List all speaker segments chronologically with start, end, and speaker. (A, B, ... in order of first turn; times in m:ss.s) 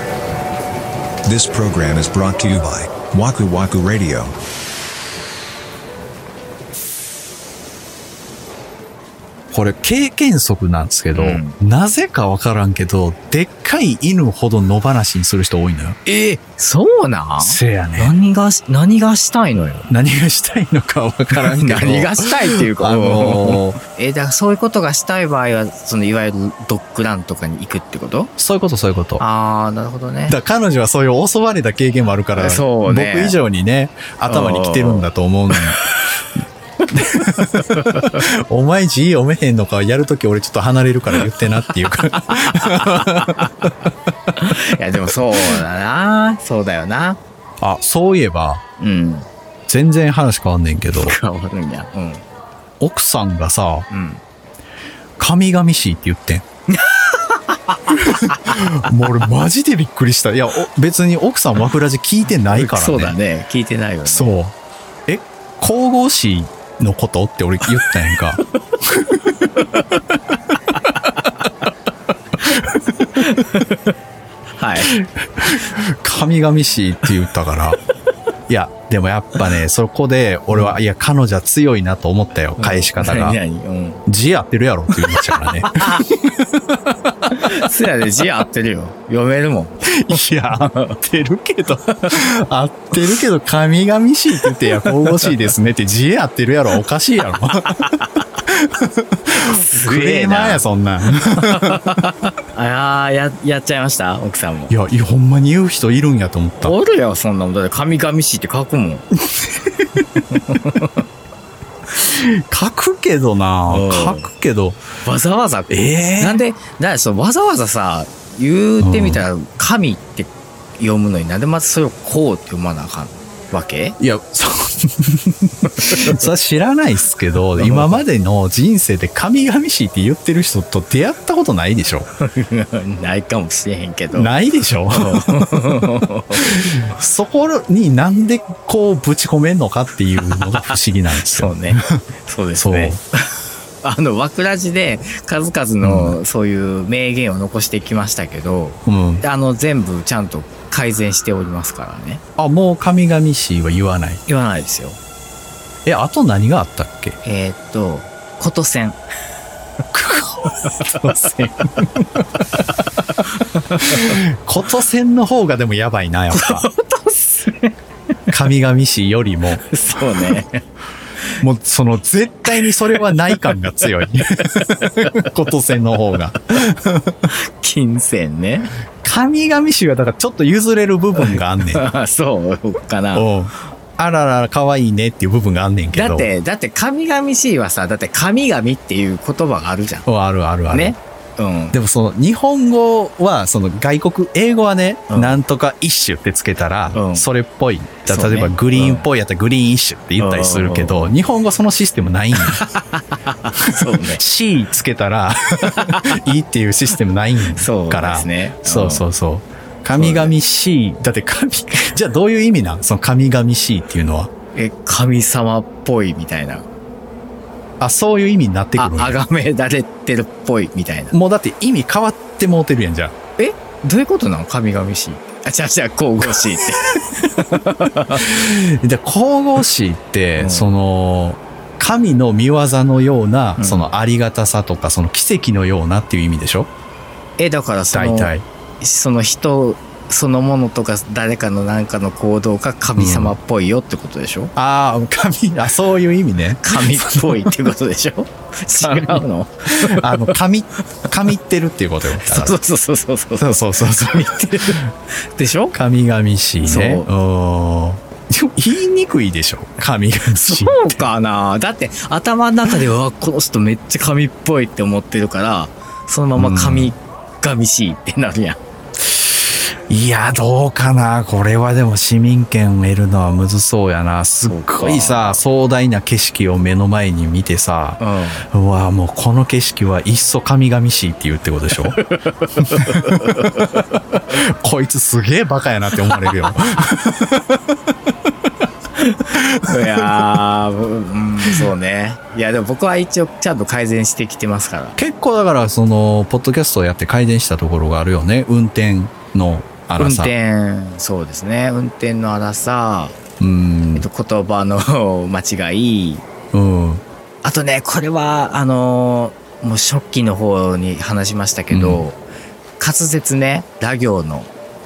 0:01.2-0:04.4 A
0:09.5-0:16.0 B
0:11.1-0:11.6 C
0:16.1-0:19.9 C
0:17.4-0:18.1 B
0:19.9-0:23.8 B
0:21.3-0:28.3 C
0:28.4-0:29.2 B
0:29.2-0:30.4 C
0:30.3-0:35.8 B
0:32.4-0:33.4 C
0:34.3-0:36.2 C
0:36.9-0:43.7 B
0:37.5-0:38.2 C
0:41.8-0:43.8 C
0:44.4-0:47.2 C
0:47.6-0:48.6 B
0:48.8-0:49.3 C
0:49.7-0:51.2 B
0:50.9-0:52.2 C
0:52.8-0:53.9 B
0:53.9-0:54.2 C
0:55.2-0:56.4 B
0:56.7-0:58.6 C
0:57.9-1:03.2 B
1:02.5-1:04.3 C
1:04.1-1:04.5 B
1:05.1-1:09.3 B
1:09.6-1:09.9 C
1:10.8-1:11.5 C
1:12.5-1:13.2 B
1:13.1-1:13.9 C
1:14.6-1:15.0 C
1:14.8-1:17.8 B
1:18.5-1:23.4 B
1:20.5-1:20.8 C
1:22.6-1:24.0 C
1:24.1-1:26.8 B
1:25.0-1:26.1 C
1:27.3-1:31.0 C
1:29.9-1:37.8 B
1:31.7-1:32.3 C
1:34.4-1:35.4 C
1:37.6-1:38.3 C
1:38.5-1:41.8 B
1:39.4-1:40.6 C
1:41.4-1:44.7 C
1:44.7-1:46.8 B
1:46.6-1:49.0 C
1:49.3-1:50.2 B
1:50.2-1:51.0 C
1:52.0-1:54.8 B
1:53.7-1:54.3 C
1:55.0-2:04.0 C
1:55.7-1:56.4 B
1:58.8-1:59.2 B
2:04.0-2:12.1 B
2:05.7-2:06.2 C
2:07.6-2:08.0 C
2:12.2-2:14.3 C
2:14.1-2:15.8 B
2:14.9-2:16.9 C
2:16.4-2:22.0 B
2:20.2-2:32.2 C
2:22.6-2:23.0 B
2:25.8-2:26.2 B
2:28.8-2:29.2 B
2:32.4-2:34.2 B
2:34.3-2:35.0 C
2:35.9-2:37.2 B
2:37.2-2:39.0 C
2:39.9-2:41.4 B
2:40.6-2:42.0 C
2:43.2-2:44.2 C
2:43.8-2:46.7 B
2:46.3-2:47.8 C
2:48.3-2:49.6 B
2:49.5-2:50.6 C
2:51.4-2:57.3 B
2:52.5-2:53.6 C
2:54.8-2:55.2 C
2:57.3-2:58.7 C
2:59.0-3:01.8 B
3:01.2-3:03.3 C
3:03.1-3:06.3 B
3:05.9-3:10.1 C
3:10.1-3:11.0 B
3:10.7-3:11.8 C
3:11.7-3:22.7 B
3:15.1-3:15.4 C
3:16.9-3:17.3 C
3:18.1-3:19.0 C
3:20.2-3:21.1 C
3:22.4-3:24.2 C
3:24.0-3:34.3 B
3:25.7-3:26.2 C
3:27.6-3:29.0 C
3:29.9-3:30.4 C
3:34.6-3:36.7 C
3:37.8-3:39.2 B
3:38.8-3:41.2 C
3:41.1-3:43.1 B
3:43.4-3:48.3 C
3:48.1-3:56.7 B
3:50.4-3:50.7 C
3:53.6-3:54.0 C
3:57.4-4:04.5 C
3:57.9-3:58.4 B
4:03.0-4:03.4 B
4:04.6-4:07.5 B
4:06.6-4:10.3 C
4:08.8-4:12.6 B
4:12.1-4:15.8 C
4:13.4-4:14.8 B
4:15.7-4:21.0 B
4:16.6-4:17.1 C
4:20.4-4:28.6 C
4:26.4-4:26.9 B
4:29.9-4:42.0 B
4:34.5-4:35.4 C
4:38.0-4:38.5 C
4:41.9-4:43.7 C
4:42.6-4:47.8 B
4:46.1-4:46.5 C
4:49.0-4:55.0 C
4:49.3-4:50.3 B
4:55.0-5:00.4 B
5:00.0-5:03.2 C
5:03.4-5:04.1 B
5:04.0-5:06.2 C
5:06.5-5:07.0 B
5:07.4-5:12.2 C
5:11.7-5:12.0 B
5:12.8-5:14.5 C